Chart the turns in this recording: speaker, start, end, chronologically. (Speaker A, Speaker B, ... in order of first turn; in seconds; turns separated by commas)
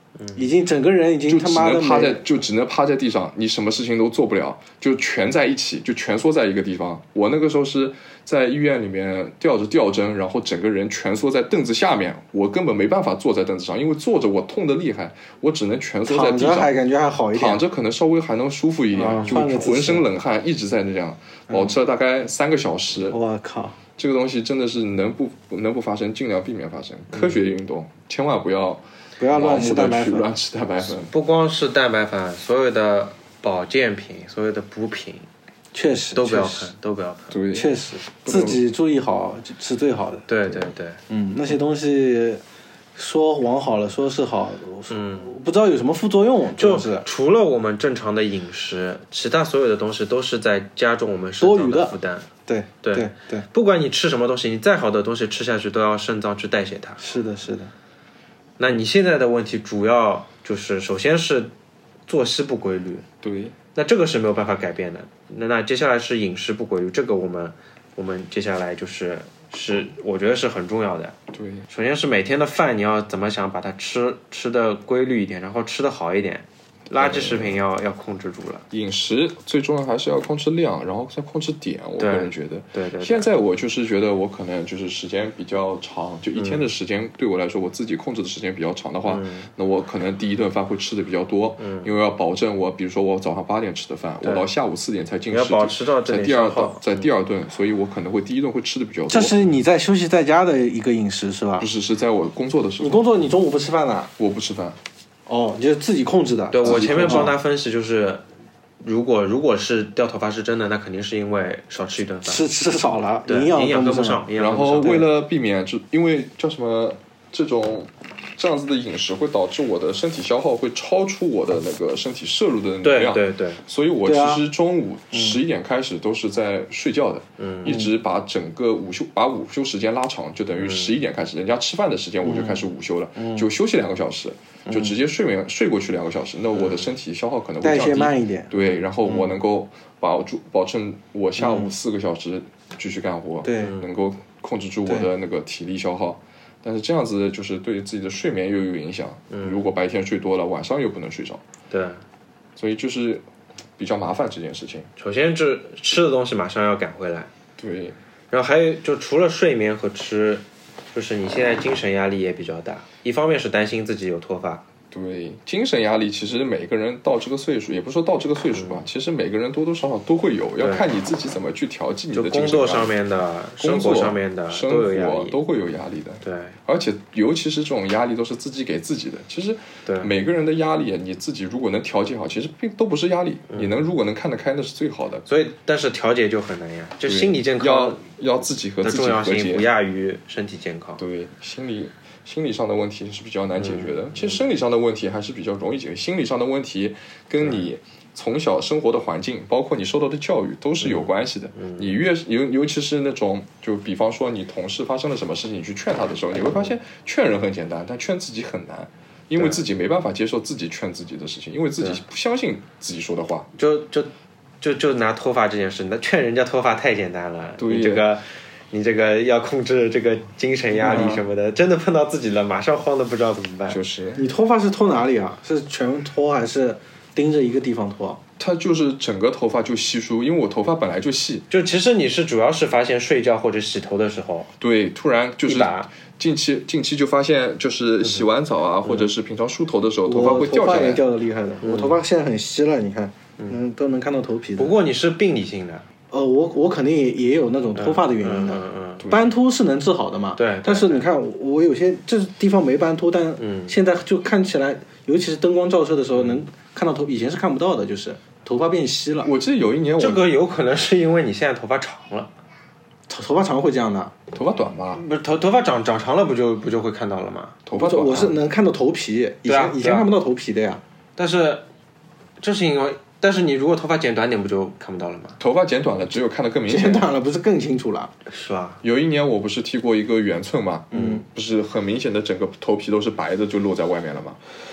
Speaker A: 0.2-0.5, Speaker B: 0.3-2.2, Speaker C: 1.3-16.7, Speaker B: 16.1-17.6, Speaker C: 17.3-23.2, Speaker B: 18.9-20.1, Speaker B: 21.5-21.8, Speaker B: 23.1-23.8, Speaker C: 24.0-31.1, Speaker B: 29.2-30.3, Speaker A: 31.1-35.3, Speaker B: 35.7-36.7, Speaker A: 36.1-37.4, Speaker C: 37.3-38.6, Speaker B: 37.5-40.3, Speaker A: 40.3-41.0, Speaker B: 41.1-42.4, Speaker B: 43.0-47.1, Speaker A: 44.9-45.4, Speaker A: 46.6-52.3, Speaker B: 51.4-52.0, Speaker B: 52.5-53.5, Speaker A: 52.8-57.0, Speaker B: 57.0-57.7, Speaker A: 58.6-61.5, Speaker A: 62.1-63.1, Speaker C: 63.2-63.6, Speaker A: 63.8-71.2, Speaker C: 71.3-71.7, Speaker A: 71.7-78.6, Speaker C: 76.9-77.6, Speaker C: 78.7-99.3, Speaker A: 82.0-83.3, Speaker A: 86.4-86.7, Speaker A: 89.1-89.5, Speaker A: 91.6-91.9, Speaker A: 94.2-94.5, Speaker A: 95.3-97.1, Speaker B: 99.1-101.7, Speaker C: 101.6-103.0, Speaker B: 102.8-104.1, Speaker C: 104.2-104.8, Speaker B: 105.3-107.4, Speaker A: 106.5-108.2, Speaker C: 106.6-107.3, Speaker A: 108.8-112.4, Speaker B: 112.2-114.3, Speaker A: 113.3-115.0, Speaker C: 114.4-151.4, Speaker A: 122.8-123.6, Speaker B: 124.0-124.5, Speaker B: 125.1-125.4, Speaker A: 127.4-127.8, Speaker B: 127.7-127.9, Speaker A: 130.6-130.9, Speaker B: 132.2-132.6, Speaker B: 133.2-133.5, Speaker B: 134.7-134.9, Speaker A: 136.6-136.9, Speaker B: 137.6-138.5, Speaker B: 141.4-141.7, Speaker B: 143.4-143.7, Speaker A: 143.6-143.8, Speaker A: 149.3-149.6, Speaker A: 151.7-152.0, Speaker C: 152.6-153.2, Speaker C: 153.8-154.9, Speaker A: 155.0-157.3, Speaker C: 157.6-158.0, Speaker A: 158.3-164.7, Speaker C: 164.9-172.9, Speaker A: 168.5-168.8, Speaker A: 170.6-170.9, Speaker A: 172.1-175.4, Speaker C: 173.6-185.3, Speaker A: 176.2-176.6, Speaker A: 179.9-180.1, Speaker A: 183.5-183.8, Speaker A: 185.3-188.0, Speaker C: 187.1-189.7, Speaker A: 188.8-191.0, Speaker C: 191.0-213.5, Speaker A: 193.6-194.4, Speaker A: 197.4-197.7, Speaker A: 200.8-202.0, Speaker A: 206.4-206.7, Speaker A: 213.6-214.1, Speaker A: 214.6-223.8, Speaker C: 217.6-218.1, Speaker B: 220.8-221.2, Speaker C: 223.7-224.2, Speaker B: 224.2-228.2, Speaker C: 228.4-231.5, Speaker A: 231.5-234.5, Speaker C: 234.6-241.1, Speaker A: 235.4-235.9, Speaker B: 240.1-244.8, Speaker A: 241.6-242.0, Speaker A: 244.6-245.8, Speaker B: 246.1-259.3, Speaker A: 247.8-249.1, Speaker C: 249.0-249.3, Speaker A: 250.4-251.1, Speaker A: 253.4-253.8, Speaker A: 256.1-256.4, Speaker C: 259.2-260.3, Speaker A: 260.0-262.3, Speaker B: 263.1-264.2, Speaker C: 264.3-265.0, Speaker A: 264.9-267.6, Speaker C: 267.7-268.4, Speaker B: 267.7-270.8, Speaker A: 269.4-270.1, Speaker A: 271.2-271.6, Speaker A: 272.4-275.4, Speaker C: 275.4-277.1, Speaker B: 276.7-278.1, Speaker A: 278.3-278.8, Speaker C: 278.8-284.4, Speaker A: 280.9-281.2, Speaker B: 280.9-281.2